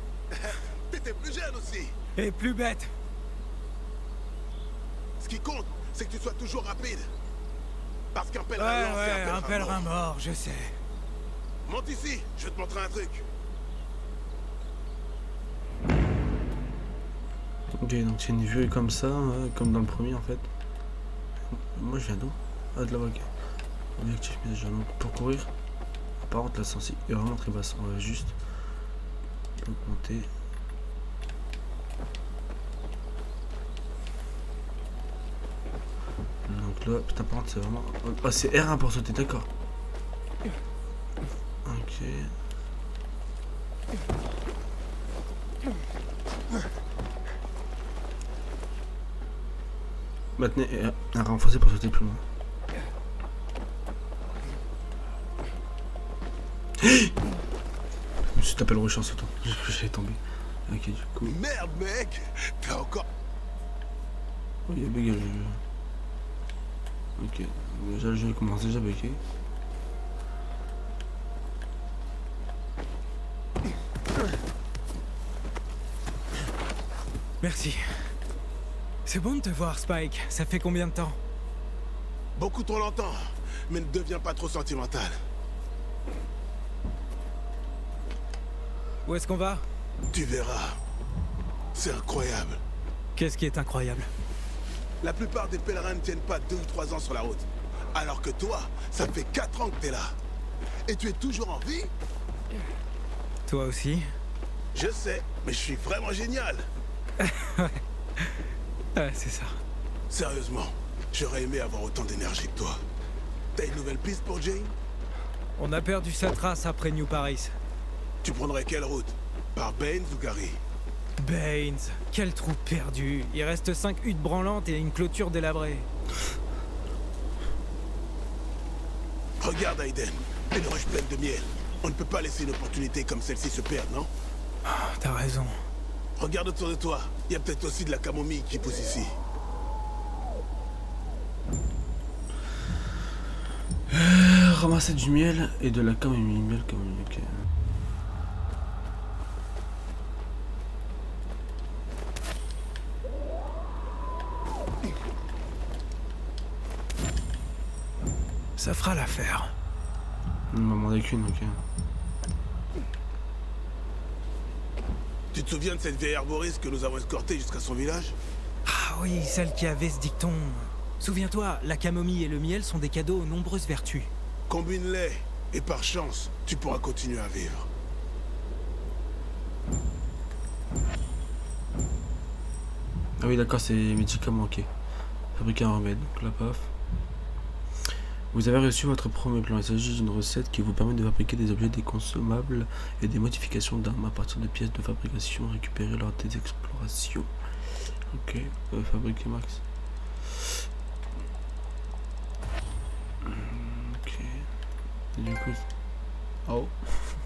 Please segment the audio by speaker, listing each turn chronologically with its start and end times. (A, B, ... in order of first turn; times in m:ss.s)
0:00.3-0:02.0 A
0:02.2-0:02.9 B
0:05.2-0:07.1 A
0:08.1-0:09.9 A
0:08.6-0:10.7 B
0:11.6-0:13.3 A
0:17.7-0:20.5 C
0:21.5-0:23.3 C
0:24.0-0:25.5 C
0:26.2-0:28.3 C
0:29.6-0:30.3 C
0:36.4-0:39.5 C
0:41.6-0:42.3 C
0:50.4-0:52.2 C
0:56.8-0:57.1 C
0:58.2-1:01.4 C
1:01.2-1:03.0 A
1:04.7-1:05.6 C
1:07.2-1:09.2 C
1:17.4-1:18.1 B
1:19.0-1:21.2 B
1:22.4-1:25.2 A
1:29.0-1:29.6 B
1:30.1-1:30.8 A
1:31.7-1:32.6 A
1:33.1-1:34.1 B
1:35.0-1:40.2 A
1:40.9-1:41.9 A
1:43.4-1:44.1 B
1:44.7-1:46.7 A
1:47.2-1:47.8 B
1:48.9-1:49.6 B
1:50.1-1:52.8 A
1:53.5-1:54.7 A
1:55.6-1:57.5 B
1:58.2-2:00.6 A
2:01.2-2:05.9 B
2:09.4-2:14.1 A
2:14.6-2:15.6 B
2:16.2-2:19.2 A
2:23.9-2:27.4 C
2:38.6-2:39.5 B
2:40.5-2:41.6 C
2:45.3-2:48.2 A
2:48.6-2:54.1 B
2:54.5-2:57.7 A
3:03.2-3:04.7 C
3:05.3-3:06.7 C
3:08.3-3:17.3 C
3:18.1-3:19.6 C
3:23.2-3:24.4 C
3:25.2-3:25.6 C
3:26.4-3:27.0 C